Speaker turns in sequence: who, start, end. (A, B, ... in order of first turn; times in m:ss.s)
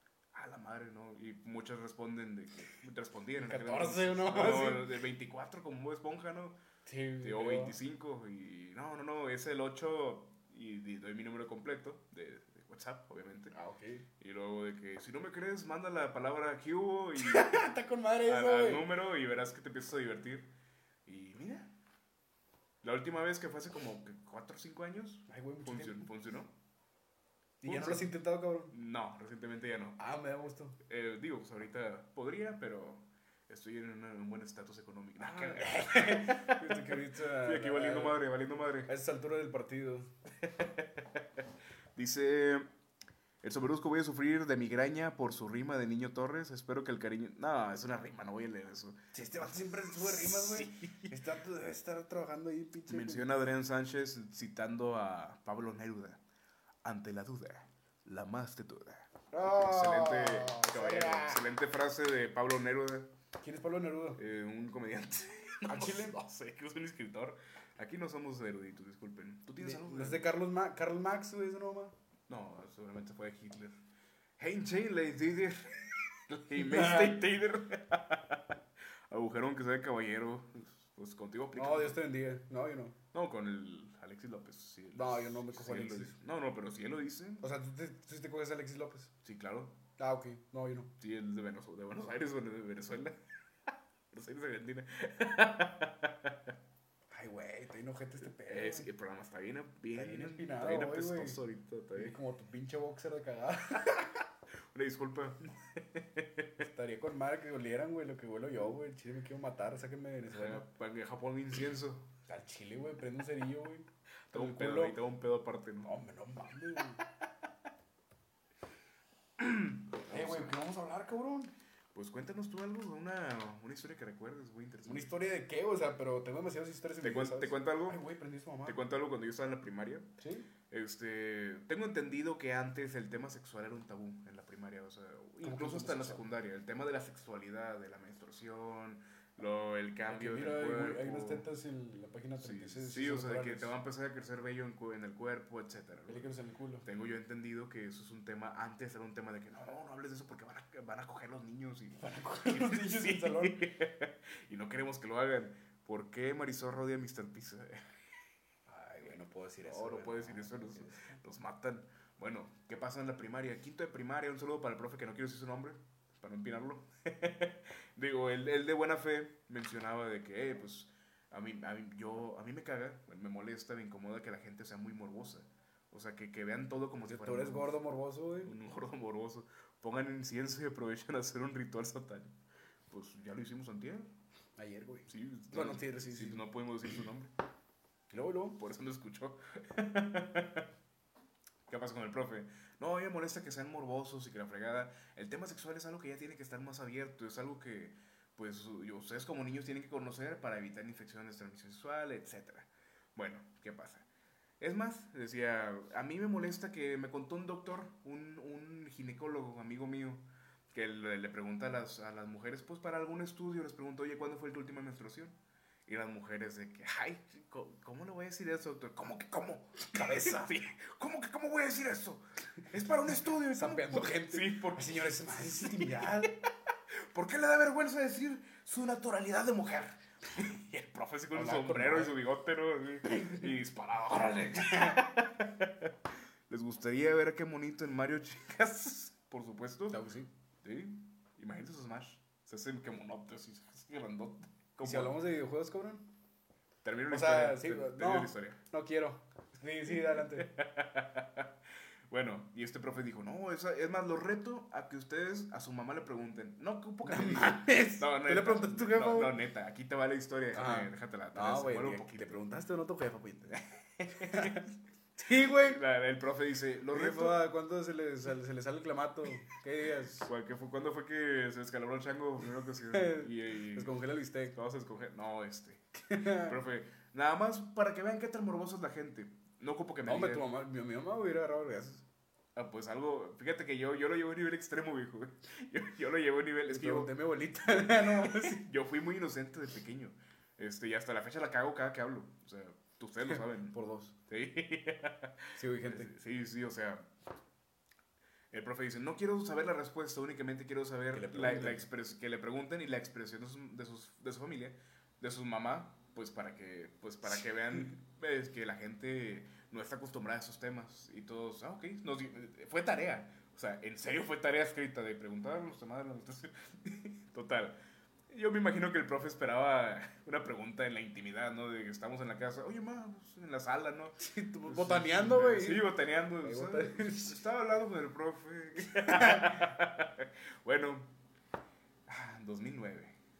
0:00.3-0:06.6 A
0:03.4-0:04.9 B
0:06.8-0:07.8 B
0:07.2-0:13.5 A
0:13.5-0:14.0 B
0:14.2-0:17.7 A
0:17.2-0:18.8 B
0:18.2-0:20.5 A
0:21.0-0:21.7 A
0:22.8-0:26.5 A
0:25.3-0:26.1 B
0:27.6-0:28.7 B
0:27.6-0:28.1 A
0:28.7-0:30.0 A
0:30.0-0:30.8 B
0:30.8-0:38.9 A
0:35.2-0:38.2 B
0:38.9-0:40.1 B
0:40.4-0:41.4 A
0:42.0-0:42.7 A
0:43.4-0:51.1 A
0:49.1-0:53.3 B
0:52.9-0:56.2 A
0:56.8-1:03.1 A
0:59.3-1:01.4 B
1:03.4-1:04.2 B
1:04.2-1:10.2 A
1:05.6-1:06.2 B
1:09.6-1:11.9 B
1:12.3-1:13.8 A
1:14.4-1:18.6 A
1:16.5-1:17.2 B
1:19.1-1:22.0 A
1:21.5-1:23.0 B
1:23.1-1:27.4 A
1:24.9-1:26.1 B
1:27.4-1:29.1 B
1:29.2-1:29.8 A
1:30.0-1:30.9 B
1:31.0-1:33.2 A
1:34.1-1:36.5 A
1:37.1-1:38.9 B
1:38.4-1:42.2 A
1:39.9-1:41.4 B
1:41.9-1:44.2 B
1:44.7-1:46.6 A
1:46.6-1:50.6 B
1:50.3-1:52.1 A
1:52.3-1:55.0 B
1:54.3-1:55.9 A
1:55.8-1:57.0 B
1:59.4-2:00.5 A
2:00.0-2:01.5 B
2:01.9-2:05.1 A
2:04.8-2:08.8 B
2:07.0-2:08.0 A
2:08.6-2:10.1 A
2:10.2-2:10.5 B
2:10.7-2:21.4 A
2:15.4-2:16.2 B
2:20.1-2:23.7 B
2:22.4-2:26.2 A
2:26.1-2:26.8 B
2:26.8-2:37.8 A
2:32.0-2:33.6 B
2:38.7-2:41.2 B
2:39.6-2:57.8 A
2:57.1-2:58.5 B
2:58.4-3:02.4 A
3:02.9-3:04.1 A
3:04.6-3:06.4 B
3:05.1-3:07.3 A
3:08.1-3:08.6 B
3:08.6-3:10.7 A
3:11.7-3:24.0 A
3:24.6-3:46.4 A
3:39.8-3:40.5 B
3:43.5-3:46.4 B
3:47.1-3:55.9 A
3:51.3-3:52.2 B
3:53.1-3:53.5 B
3:54.7-3:55.0 B
3:56.5-4:00.0 A
3:59.9-4:00.3 B
4:00.6-4:05.2 A
4:04.8-4:06.0 B
4:06.8-4:08.6 A
4:07.1-4:10.5 B
4:09.9-4:11.5 A
4:12.1-4:22.4 A
4:17.0-4:19.3 B
4:20.5-4:23.6 B
4:24.0-4:24.7 A
4:24.1-4:24.6 B
4:25.2-4:25.8 B
4:25.5-4:27.4 A
4:26.9-4:30.3 B
4:30.2-4:33.9 A
4:32.8-4:34.5 B
4:34.5-4:40.4 A
4:36.0-4:36.6 B
4:40.0-4:42.0 B
4:42.5-4:53.8 A
4:46.7-4:48.6 B
4:53.3-4:54.1 B
4:54.3-4:57.1 A
4:55.6-4:56.1 B
4:58.5-5:17.8 A
5:01.1-5:01.8 B
5:18.3-5:31.1 A
5:24.2-5:27.4 B
5:28.9-5:29.6 B
5:32.1-5:33.2 A